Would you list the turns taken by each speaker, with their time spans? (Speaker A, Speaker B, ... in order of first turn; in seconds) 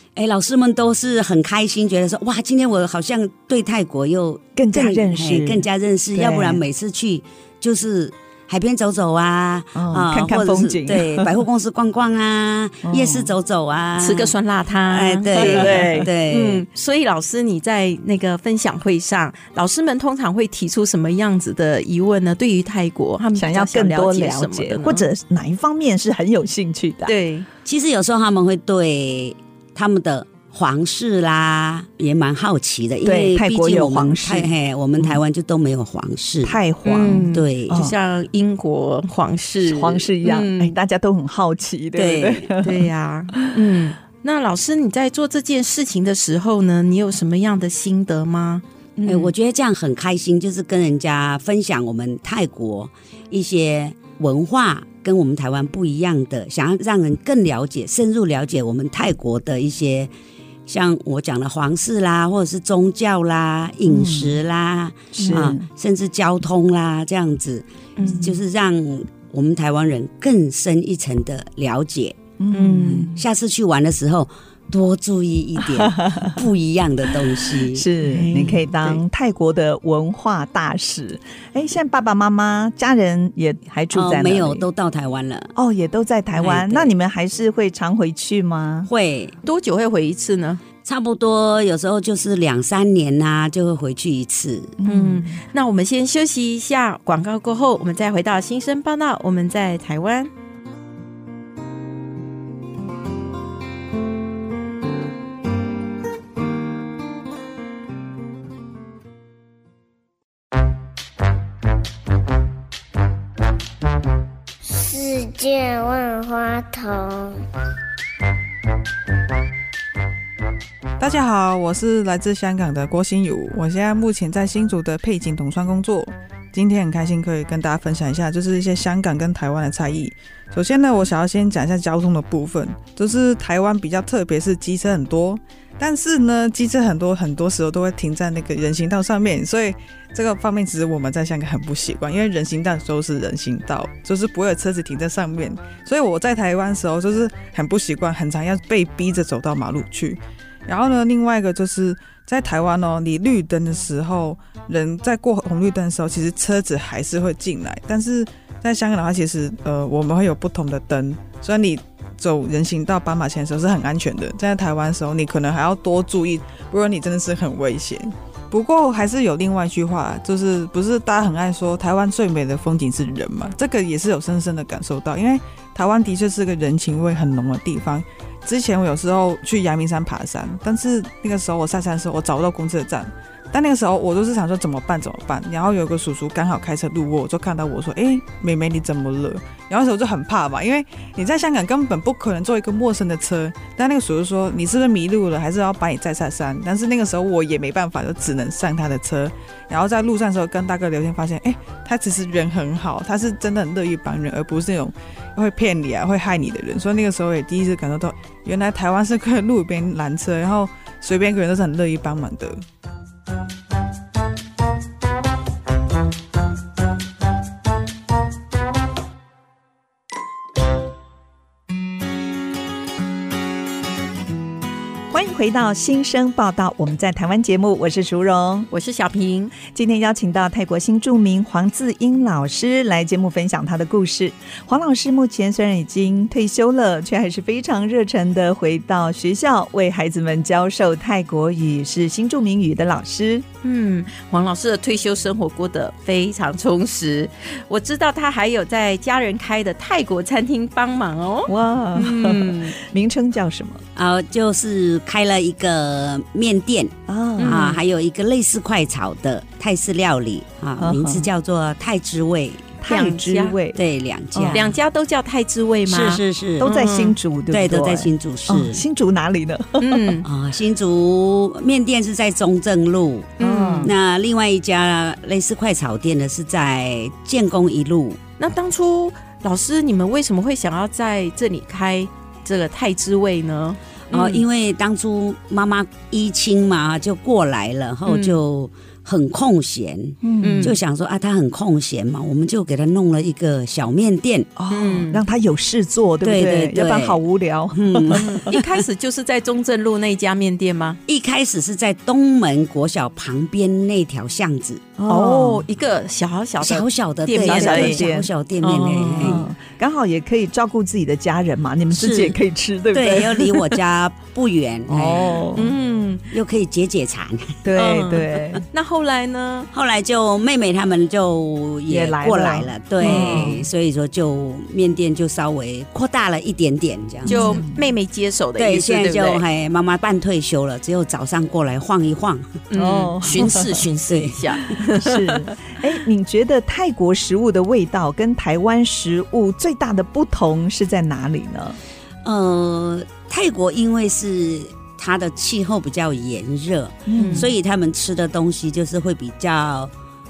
Speaker A: 0.1-14.3, 14.9-16.6, 27.6-37.9, 42.0-42.5, 49.1-60.1, 60.7-67.7, 68.2-72.2, 72.9-78.5, 83.9-85.5, 86.3-86.9, 88.8-89.3, 90.8-94.7, 253.9-256.9, 257.5-262.7, 263.7-264.7, 265.9-266.7, 267.5-268.8, 270.2-278.2, 284.1-294.5, 296.2-297.2, 297.7-298.5, 301.1-304.9, 306.6-309.4, 311.9-312.4, 312.9-315.6, 316.3-317.6, 319.7-327.6, 328.6-332.5, 334.1-334.7, 342.2-349.9
Speaker B: 4.5-6.6, 9.7-11.3, 12.8-13.3, 15.3-16.1, 23.3-27.1, 33.0-35.2, 36.4-37.9, 39.6-43.5, 63.9-64.4, 65.2-65.7, 68.0-68.3, 72.4-73.2, 75.6-76.4, 77.6-84.7, 85.5-88.9, 94.8-95.4, 225.1-228.7, 229.6-243.4, 251.5-253.8, 257.1-257.6, 260.8-261.3, 262.8-263.8, 264.3-264.6, 266.6-270.1, 273.4-273.9, 290.2-290.7, 294.6-298.5, 305.0-305.7, 307.4-308.3, 309.2-313.5, 314.9-315.7, 317.6-318.6, 321.9-323.6, 327.2-327.8, 332.8-333.8, 334.8-341.8, 347.1-347.5
Speaker C: 14.0-25.1, 27.1-27.5, 36.9-40.7, 42.6-49.3, 65.2-65.5, 68.0-68.3, 72.5-73.1, 78.1-78.5, 89.4-90.6, 94.8-100.3, 228.7-229.5, 243.6-252.8, 257.4-257.8, 262.9-263.6, 264.5-267.2, 269.8-270.2, 273.4-273.9, 278.4-284.4, 288.1-288.4, 290.4-290.8, 294.7-295.2, 298.2-301.0, 305.1-308.0, 308.6-309.4, 315.6-316.3, 317.7-319.7, 323.0-323.6, 327.2-329.4, 332.7-335.5, 347.1-347.5
Speaker D: 114.8-117.4
Speaker E: 121.0-212.6